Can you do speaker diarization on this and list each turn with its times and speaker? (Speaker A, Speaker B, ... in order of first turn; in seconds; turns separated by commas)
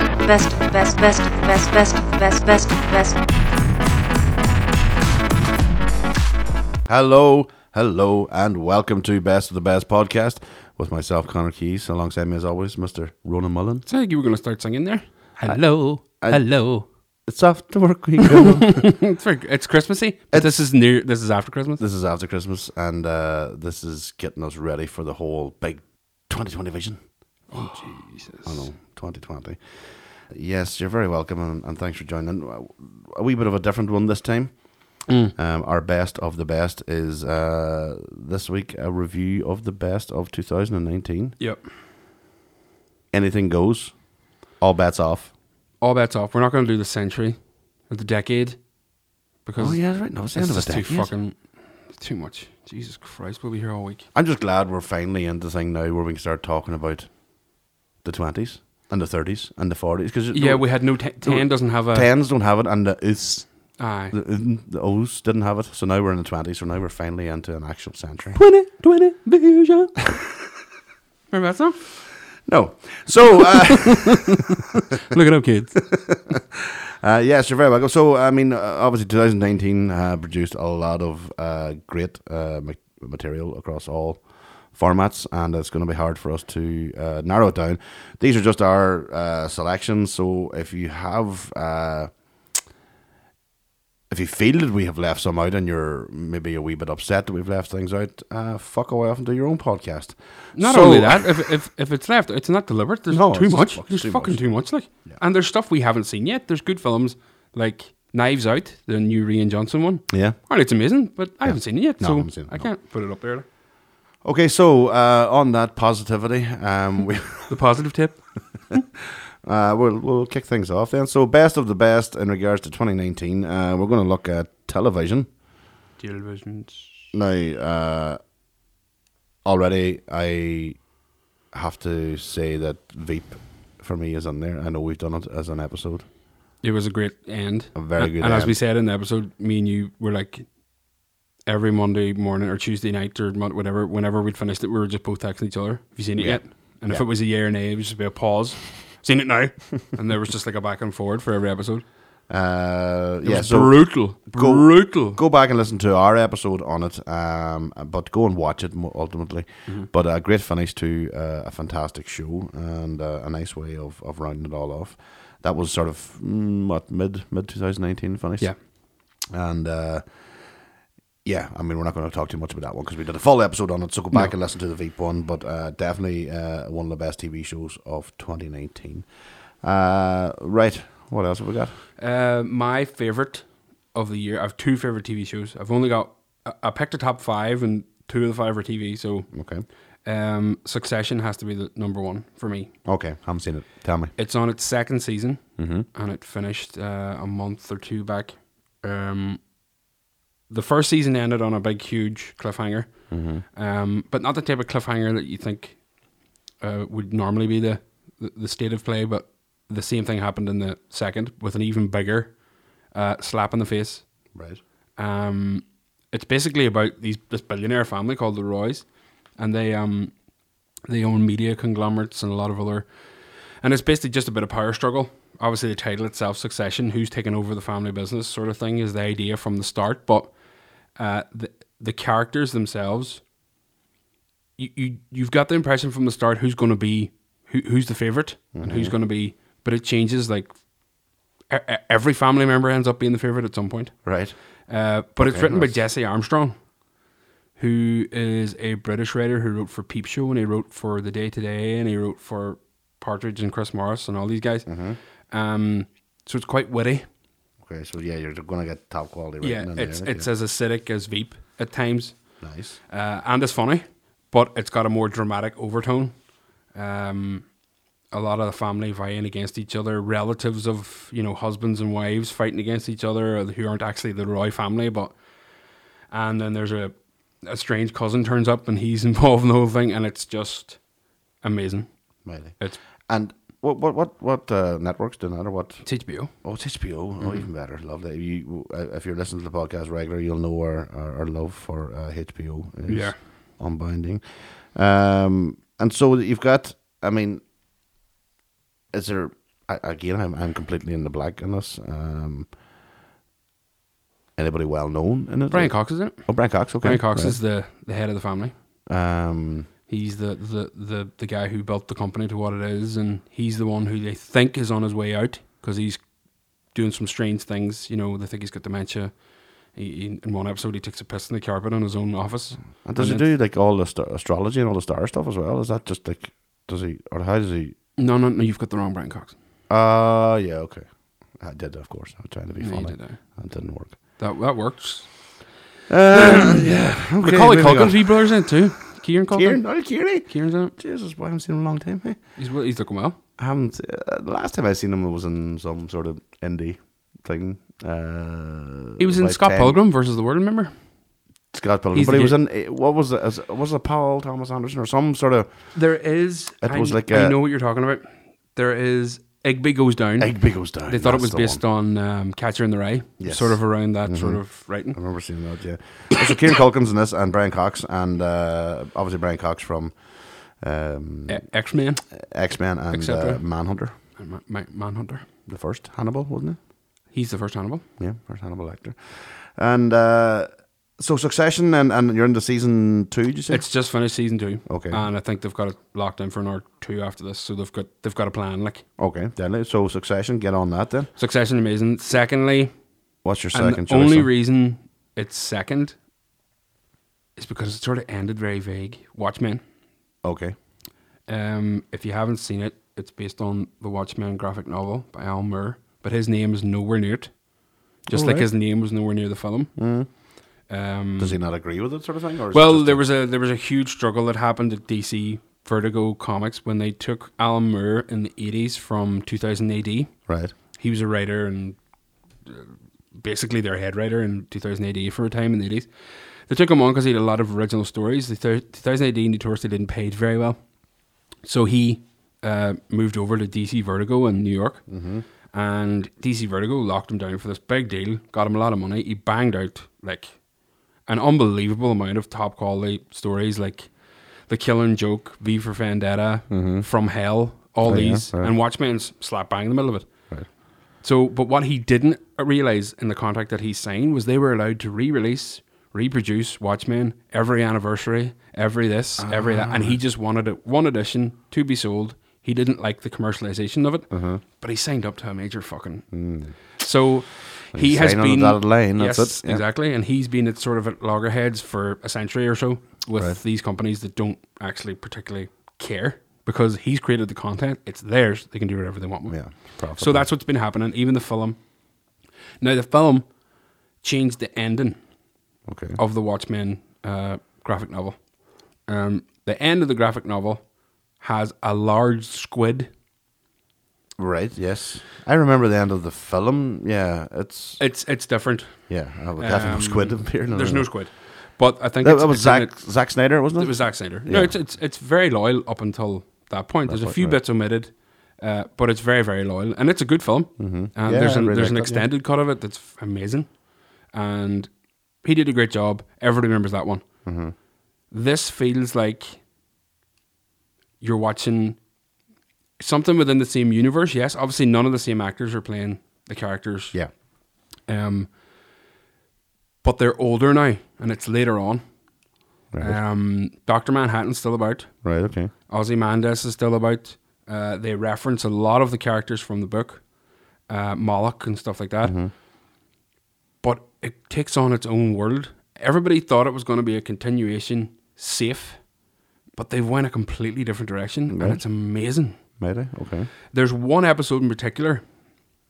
Speaker A: 0.2-3.2, Speaker B: 6.9-13.8, Speaker C: 13.8-16.9, Speaker B: 15.4-19.0, Speaker C: 18.3-21.8, Speaker B: 21.8-41.4, Speaker C: 27.5-28.7, Speaker C: 35.1-35.3, Speaker C: 41.4-41.6, Speaker B: 43.1-45.3, Speaker C: 45.8-48.6, Speaker C: 49.4-54.0, Speaker B: 49.6-51.1, Speaker B: 54.1-68.4, Speaker C: 60.3-62.1, Speaker C: 63.8-64.1, Speaker C: 68.3-70.2, Speaker C: 71.3-71.9, Speaker B: 72.4-74.4, Speaker C: 75.1-76.0, Speaker B: 75.9-92.1, Speaker B: 94.1-101.5, Speaker C: 100.5-113.5, Speaker B: 103.1-105.2, Speaker B: 110.1-110.4, Speaker B: 111.4-112.7, Speaker B: 114.2-117.6, Speaker C: 117.5-118.8, Speaker B: 119.4-125.3, Speaker C: 126.0-127.0, Speaker B: 127.1-128.2, Speaker B: 129.4-130.9, Speaker B: 131.5-136.1, Speaker C: 136.6-140.5, Speaker B: 137.7-138.6, Speaker C: 141.4-151.8, Speaker B: 146.2-147.1, Speaker B: 152.3-170.7, Speaker C: 153.2-155.2, Speaker B: 171.2-181.8, Speaker C: 182.0-189.3, Speaker B: 189.3-189.7, Speaker C: 190.0-192.7, Speaker B: 192.8-194.1, Speaker C: 194.2-199.4, Speaker B: 195.6-195.9, Speaker C: 200.5-205.9, Speaker B: 203.1-203.4, Speaker C: 206.6-212.4, Speaker C: 212.9-214.1, Speaker B: 214.3-214.6, Speaker C: 215.0-220.1, Speaker C: 220.9-222.9, Speaker C: 223.6-230.3, Speaker C: 230.9-233.2, Speaker C: 234.6-240.5, Speaker B: 238.5-238.9, Speaker C: 241.5-243.9, Speaker B: 244.0-244.3, Speaker C: 244.7-246.6, Speaker B: 245.2-245.8, Speaker C: 247.6-257.1, Speaker B: 254.7-255.0, Speaker B: 257.6-260.3, Speaker C: 259.4-267.5, Speaker B: 262.4-262.8, Speaker C: 268.1-275.1, Speaker C: 276.1-280.8, Speaker C: 281.4-281.9, Speaker B: 282.2-297.4, Speaker C: 282.5-282.8, Speaker C: 285.8-286.3, Speaker C: 287.2-287.4, Speaker C: 292.9-293.2, Speaker B: 298.9-302.5, Speaker B: 304.4-307.4, Speaker C: 305.5-308.5, Speaker B: 308.9-309.7, Speaker C: 309.9-316.0, Speaker C: 316.6-319.2, Speaker C: 319.7-323.3, Speaker B: 322.8-327.8, Speaker C: 328.0-329.3, Speaker B: 329.7-334.0, Speaker C: 332.6-333.2, Speaker C: 334.2-335.4, Speaker B: 335.9-338.6, Speaker C: 336.1-340.7, Speaker B: 339.3-342.4, Speaker C: 342.4-343.2, Speaker B: 343.4-349.8, Speaker C: 349.0-350.7, Speaker B: 351.5-356.1, Speaker C: 351.9-352.4, Speaker C: 355.7-365.0, Speaker B: 356.6-357.4, Speaker B: 360.2-361.6, Speaker B: 363.2-371.5, Speaker C: 371.3-372.2, Speaker B: 372.1-373.9, Speaker C: 372.9-375.2, Speaker B: 375.4-376.6, Speaker C: 377.1-377.8, Speaker B: 378.0-383.7, Speaker C: 383.5-388.8, Speaker B: 384.6-385.0, Speaker B: 389.0-391.1, Speaker C: 391.2-392.7, Speaker B: 393.2-394.3, Speaker C: 393.5-395.9, Speaker C: 397.4-399.6, Speaker B: 400.2-400.6, Speaker C: 401.3-407.3, Speaker B: 408.1-408.5, Speaker C: 408.1-409.8, Speaker B: 409.8-410.1, Speaker C: 410.7-411.4, Speaker B: 411.2-413.0, Speaker C: 412.5-421.8, Speaker B: 420.3-420.5, Speaker C: 422.4-425.9, Speaker C: 426.5-430.6, Speaker C: 431.4-435.0, Speaker B: 434.9-435.2, Speaker C: 435.5-440.4, Speaker C: 441.0-450.3, Speaker B: 446.5-446.9, Speaker B: 447.8-448.5, Speaker C: 451.0-466.1, Speaker B: 459.2-460.0, Speaker B: 464.1-464.4, Speaker B: 466.1-466.6, Speaker C: 466.8-481.6, Speaker B: 467.7-469.6, Speaker B: 473.1-473.4, Speaker B: 479.3-480.3, Speaker C: 482.6-483.3, Speaker C: 484.0-485.0, Speaker B: 485.7-486.0, Speaker C: 486.0-488.3, Speaker C: 488.8-490.6, Speaker C: 491.2-492.9, Speaker B: 494.2-497.8, Speaker C: 497.8-513.5, Speaker B: 498.9-501.1, Speaker B: 502.0-504.6, Speaker B: 506.9-507.4, Speaker B: 510.6-512.1, Speaker C: 514.1-514.7, Speaker C: 515.2-517.0, Speaker B: 517.2-517.5, Speaker C: 518.1-519.4, Speaker C: 521.0-521.8, Speaker C: 522.8-527.0, Speaker C: 527.9-528.3, Speaker C: 529.8-531.8, Speaker B: 532.7-533.0, Speaker C: 532.8-535.0, Speaker B: 535.0-535.5, Speaker C: 535.7-540.0, Speaker C: 540.7-542.2, Speaker B: 542.0-542.3, Speaker C: 543.6-548.8, Speaker C: 549.5-552.4, Speaker B: 551.3-551.6, Speaker B: 552.6-553.3, Speaker C: 553.5-555.0